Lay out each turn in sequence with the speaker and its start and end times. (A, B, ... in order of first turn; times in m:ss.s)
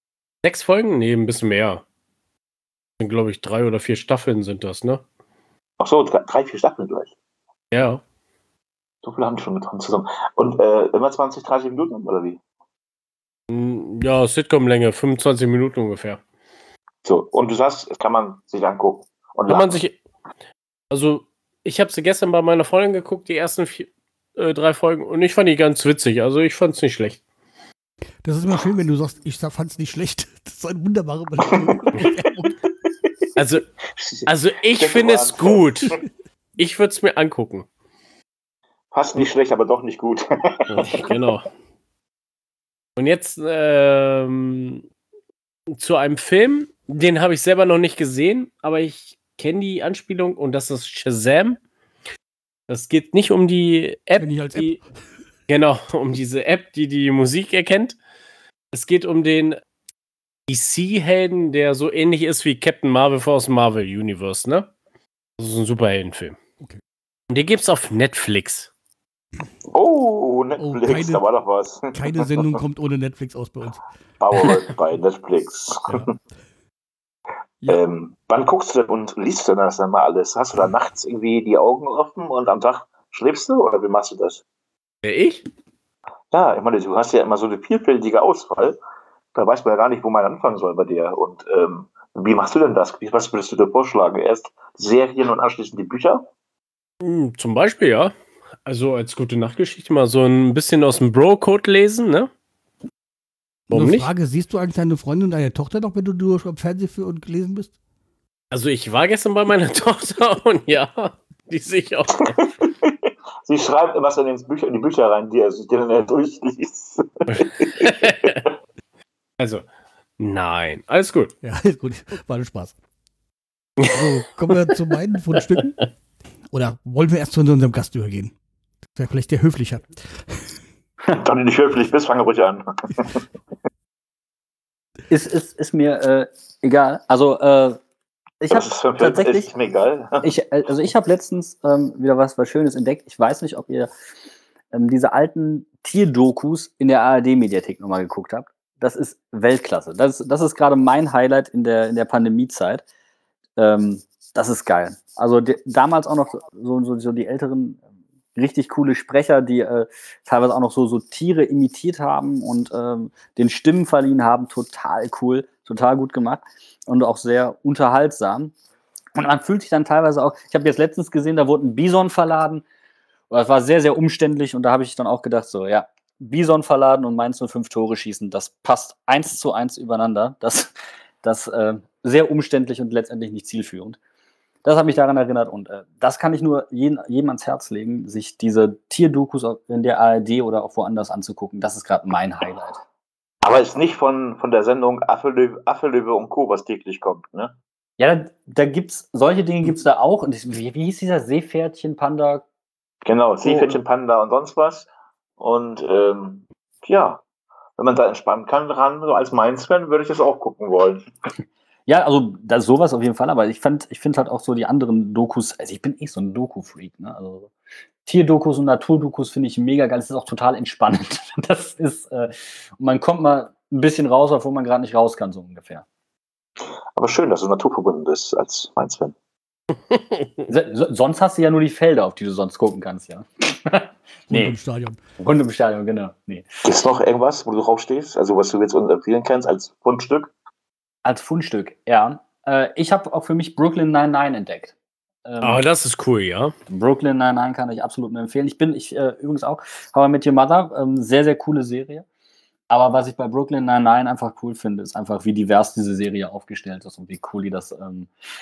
0:00.4-0:01.8 A
0:03.0-0:05.0 A
0:05.8-0:07.1 B
0:07.7-0:08.0 A
0:09.0-0:12.4 B
0:13.5-0:16.2 A
0:17.0-0:19.8 B
0:19.5-0:20.0 A
0:20.9-0:27.2 A
0:28.2-0:32.6 C
0:31.5-0:31.9 B
0:33.4-0:33.7 A
0:34.0-0:34.2 B
0:34.3-0:36.0 A
0:34.8-0:36.0 B
0:36.6-0:37.7 A
0:38.9-0:41.1 B
0:40.7-0:41.4 A
0:43.0-0:44.8 A
0:45.8-0:51.6 A
0:52.7-0:54.8 A
0:54.2-0:54.8 C
0:55.5-0:58.0 A
0:58.7-0:59.6 A
1:00.5-1:04.7 A
1:05.4-1:06.4 A
1:07.3-1:08.7 A
1:09.7-1:12.6 B
1:10.6-1:11.2 C
1:11.9-1:13.8 C
1:14.2-1:16.1 B
1:17.7-1:24.4 B
1:25.0-1:25.4 A
1:26.3-1:28.8 B
1:29.4-1:36.3 B
1:37.0-1:38.1 A
1:38.6-1:42.3 A
1:43.7-1:44.1 A
1:43.7-1:47.7 C
1:48.5-1:52.3 A
1:52.2-1:58.4 B
1:57.3-1:58.4 A
1:59.4-1:59.6 A
2:00.2-2:01.3 A
2:01.4-2:02.7 C
2:03.8-2:04.6 A
2:03.9-2:05.8 C
2:06.5-2:08.3 C
2:09.0-2:10.5 C
2:11.1-2:13.2 B
2:15.1-2:17.8 D
2:18.4-2:19.5 D
2:18.5-2:20.3 B
2:20.2-2:23.9 D
2:24.7-2:32.8 D
2:33.6-2:37.8 D
2:38.4-2:48.6 D
2:49.2-2:52.6 D
2:53.3-3:04.0 D
3:04.6-3:12.8 D
3:13.4-3:17.6 B
3:18.0-3:22.4 D
3:23.0-3:24.9 B
3:23.4-3:23.8 D
3:25.4-3:27.2 B
3:27.8-3:31.1 B
3:31.9-3:37.5 D
3:38.0-3:45.8 D
3:47.0-3:49.2 B
3:49.9-3:50.3 A
3:50.5-3:54.6 D
3:54.3-3:55.0 C
3:55.2-3:56.6 D
3:56.6-4:00.3 B
4:01.0-4:04.7 D
4:05.3-4:05.6 D
4:05.4-4:06.5 A
4:06.7-4:12.0 D
4:12.7-4:18.1 D